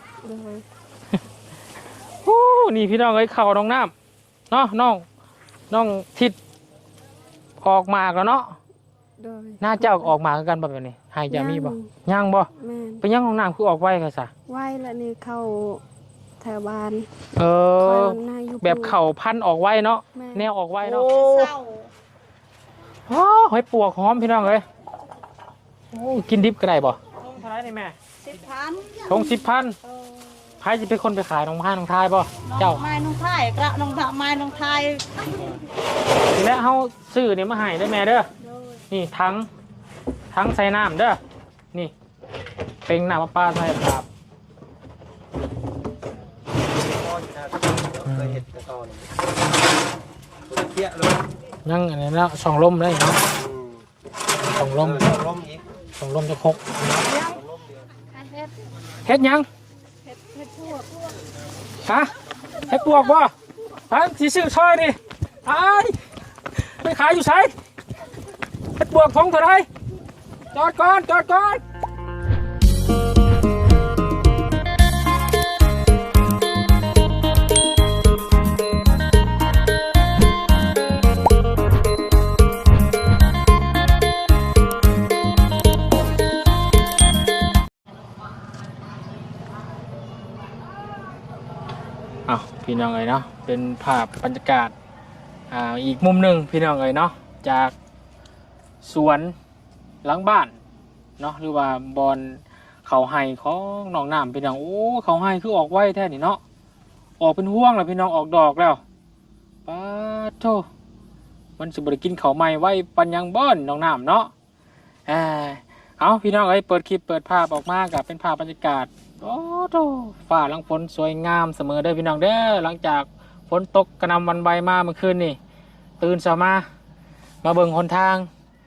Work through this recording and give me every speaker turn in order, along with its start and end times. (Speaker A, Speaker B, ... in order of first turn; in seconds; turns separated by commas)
Speaker A: 0.2-0.6, Speaker B: 2.2-3.9, Speaker B: 4.5-5.0, Speaker B: 5.7-6.3, Speaker B: 7.6-8.6, Speaker A: 9.2-10.1, Speaker B: 9.6-12.5, Speaker A: 11.3-11.9, Speaker A: 12.5-13.0, Speaker B: 13.0-14.3, Speaker A: 14.5-15.8, Speaker A: 16.4-17.1, Speaker B: 17.4-21.5, Speaker A: 17.8-18.9, Speaker A: 20.1-20.5, Speaker C: 20.8-21.9, Speaker B: 23.1-24.6, Speaker B: 25.9-27.9, Speaker C: 28.2-29.3, Speaker B: 29.1-29.8, Speaker B: 30.6-32.8, Speaker C: 32.4-35.5, Speaker B: 35.3-35.6, Speaker B: 36.3-38.3, Speaker B: 38.9-39.5, Speaker B: 40.3-41.2, Speaker B: 42.9-44.0, Speaker D: 46.6-49.1, Speaker B: 48.0-48.4, Speaker D: 50.5-51.2, Speaker B: 51.6-53.2, Speaker D: 53.3-53.9, Speaker B: 54.4-55.1, Speaker D: 54.8-55.6, Speaker B: 56.0-57.0, Speaker D: 57.0-57.9, Speaker B: 59.0-59.5, Speaker A: 60.4-61.1, Speaker B: 61.8-62.1, Speaker B: 62.7-63.3, Speaker B: 63.9-66.0, Speaker B: 66.5-67.5, Speaker B: 68.8-69.7, Speaker B: 70.5-71.6, Speaker B: 92.3-94.7, Speaker B: 95.5-97.7, Speaker B: 98.8-99.3, Speaker B: 100.0-100.5, Speaker B: 101.2-106.4, Speaker B: 107.2-108.8, Speaker B: 109.7-110.7, Speaker B: 111.6-114.3, Speaker B: 115.1-125.4, Speaker B: 126.0-126.7, Speaker B: 127.4-128.3